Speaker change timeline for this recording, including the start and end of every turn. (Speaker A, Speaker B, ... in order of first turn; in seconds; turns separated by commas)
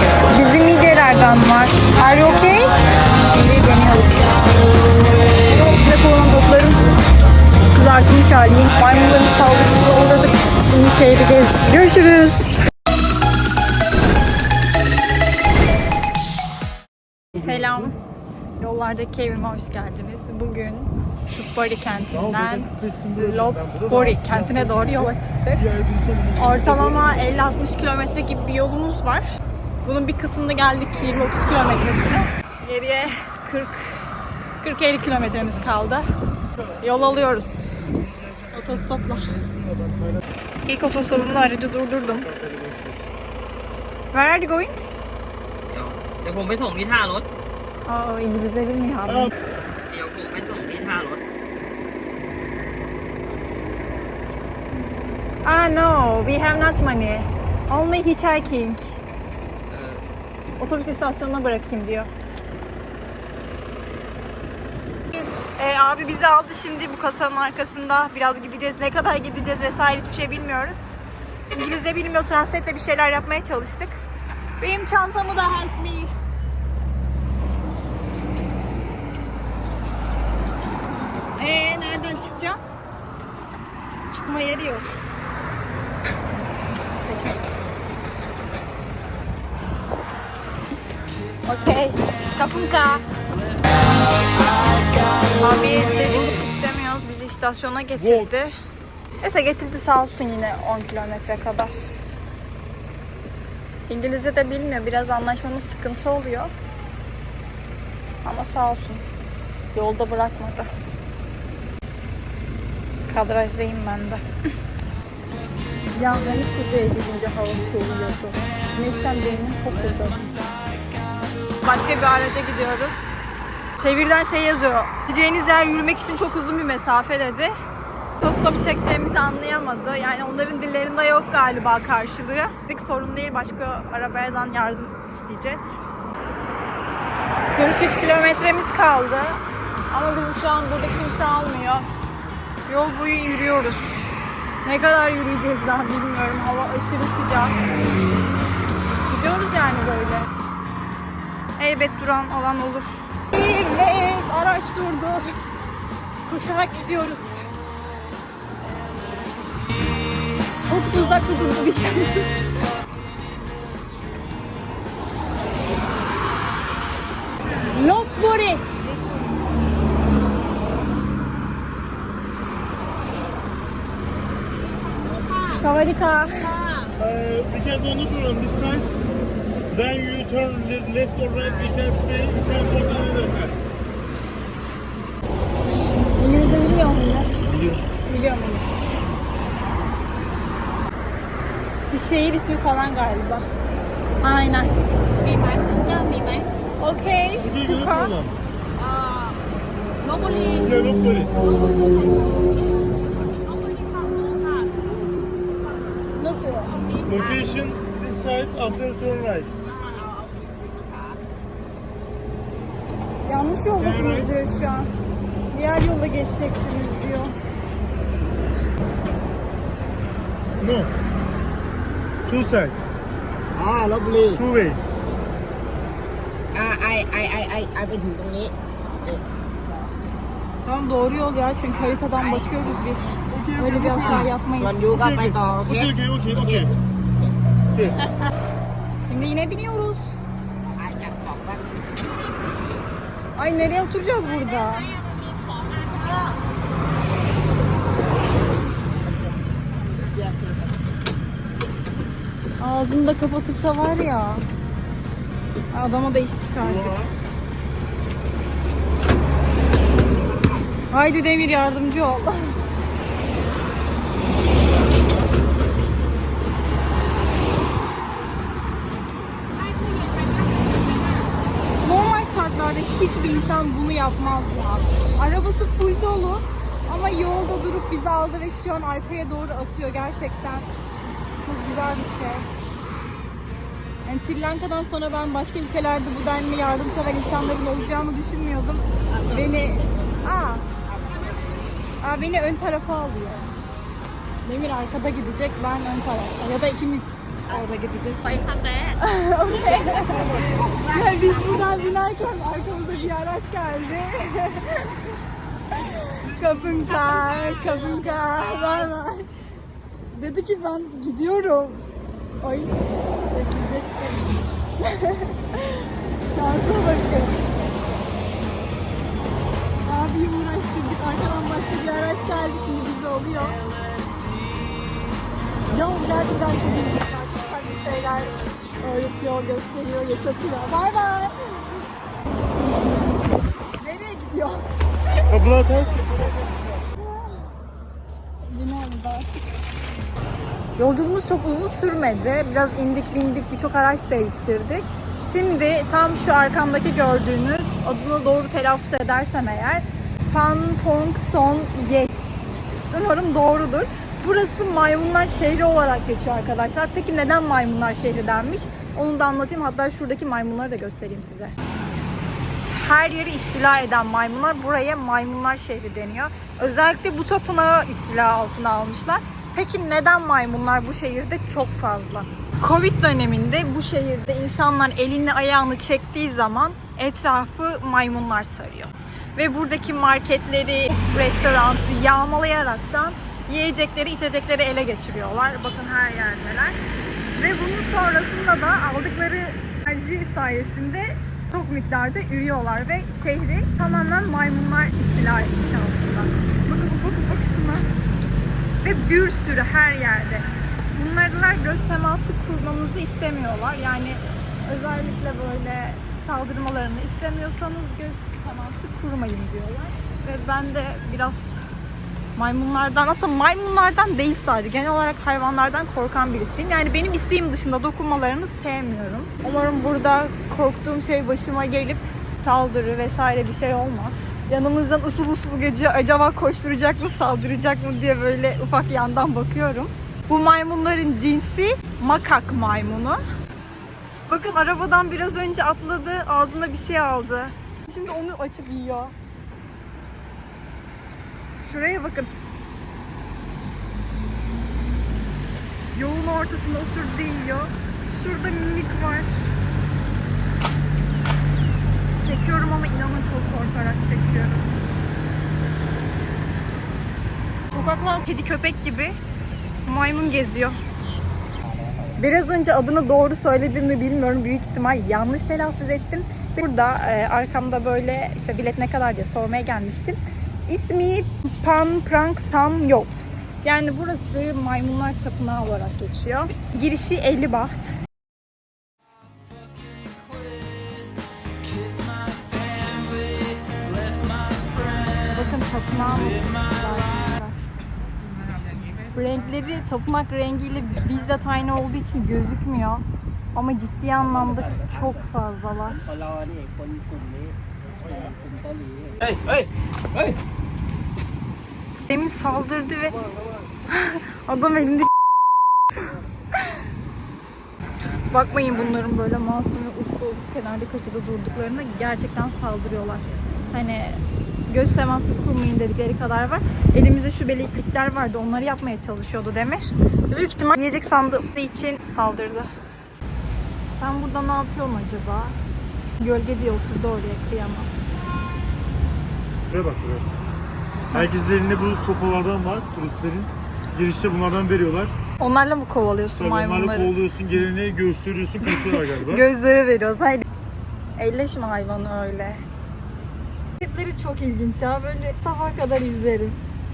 Speaker A: 0.3-4.5, Speaker A: 5.4-6.8, Speaker A: 7.7-12.6, Speaker A: 17.4-18.0, Speaker A: 18.6-25.6, Speaker B: 22.1-27.2, Speaker A: 26.4-34.0, Speaker A: 34.6-36.1, Speaker A: 36.8-37.9, Speaker B: 38.0-40.2, Speaker A: 38.5-39.3, Speaker A: 40.7-42.3, Speaker B: 42.0-43.1, Speaker A: 44.1-44.9, Speaker C: 45.7-47.3, Speaker A: 47.9-49.3, Speaker B: 49.1-49.3, Speaker C: 49.9-51.2, Speaker A: 55.4-58.8, Speaker C: 59.7-60.0, Speaker A: 60.6-62.1, Speaker A: 65.1-70.9, Speaker A: 71.5-74.0, Speaker A: 74.6-76.1, Speaker A: 81.4-82.6, Speaker A: 84.1-84.9, Speaker A: 87.0-87.5, Speaker A: 91.5-93.1, Speaker A: 95.3-98.5, Speaker B: 98.0-98.3, Speaker A: 99.2-102.0, Speaker A: 103.9-106.5, Speaker A: 108.2-109.0, Speaker A: 109.7-110.7, Speaker A: 113.1-114.2, Speaker A: 116.0-120.3, Speaker A: 121.6-123.2, Speaker A: 123.8-127.5, Speaker A: 128.2-135.7, Speaker A: 137.5-139.4, Speaker A: 139.9-141.9, Speaker A: 142.7-143.9, Speaker A: 144.6-147.6, Speaker A: 149.1-150.3, Speaker A: 151.6-155.3, Speaker A: 156.3-157.4, Speaker A: 160.6-162.4, Speaker A: 167.6-168.7, Speaker D: 174.9-175.6, Speaker A: 175.5-176.6, Speaker D: 176.6-176.9, Speaker B: 177.0-179.0, Speaker B: 179.7-183.6, Speaker A: 186.1-187.3, Speaker B: 187.4-187.9, Speaker A: 188.1-188.7, Speaker A: 191.9-193.5, Speaker A: 194.2-194.7, Speaker D: 195.2-196.5, Speaker A: 196.8-198.1, Speaker B: 197.4-198.3, Speaker D: 198.8-199.4, Speaker D: 200.0-200.7, Speaker B: 200.6-201.4, Speaker D: 201.4-202.5, Speaker D: 203.4-204.8, Speaker A: 206.2-206.8, Speaker D: 206.7-207.1, Speaker B: 207.1-209.6, Speaker E: 207.1-207.5, Speaker E: 209.7-211.2, Speaker A: 213.2-214.9, Speaker B: 213.8-214.3, Speaker A: 215.5-217.3, Speaker B: 220.6-220.9, Speaker B: 222.3-222.8, Speaker E: 223.6-224.4, Speaker B: 224.3-224.8, Speaker E: 226.5-229.2, Speaker A: 230.7-235.3, Speaker E: 231.9-232.7, Speaker B: 233.3-234.3, Speaker E: 234.0-236.8, Speaker B: 235.1-236.7, Speaker A: 239.0-240.1, Speaker E: 240.8-242.1, Speaker A: 243.3-245.0, Speaker E: 250.0-250.7, Speaker A: 252.6-254.4, Speaker A: 255.7-257.0, Speaker B: 256.6-257.1, Speaker A: 260.9-262.6, Speaker D: 269.6-271.3, Speaker A: 271.8-280.7, Speaker A: 281.4-282.5, Speaker A: 284.1-290.7, Speaker E: 290.9-291.2, Speaker A: 292.0-293.5, Speaker A: 294.4-305.0, Speaker C: 298.5-298.9, Speaker E: 299.7-301.0, Speaker A: 305.7-309.3, Speaker A: 310.1-311.8, Speaker A: 312.4-312.8, Speaker A: 313.3-317.4, Speaker A: 319.9-323.6, Speaker A: 325.7-331.7, Speaker A: 333.8-334.7, Speaker B: 335.3-336.8, Speaker A: 337.0-337.4, Speaker A: 338.4-339.3, Speaker A: 340.8-361.6, Speaker A: 362.7-386.8, Speaker A: 387.4-397.9, Speaker A: 398.8-411.6, Speaker A: 412.4-433.2, Speaker A: 434.3-439.1, Speaker A: 441.6-442.3, Speaker A: 445.9-449.4, Speaker A: 452.2-454.7, Speaker A: 457.7-459.2, Speaker A: 459.9-460.8, Speaker A: 462.2-478.0, Speaker A: 485.3-487.6, Speaker A: 489.1-496.1, Speaker D: 496.7-497.4, Speaker D: 498.2-499.2, Speaker A: 502.1-503.2, Speaker A: 503.9-505.1, Speaker A: 508.3-522.7, Speaker A: 523.9-525.6, Speaker A: 526.2-527.9, Speaker B: 529.7-530.3, Speaker B: 531.1-535.1, Speaker A: 535.4-537.1, Speaker B: 536.4-539.4, Speaker A: 538.6-540.5, Speaker A: 541.2-542.6, Speaker A: 543.8-546.6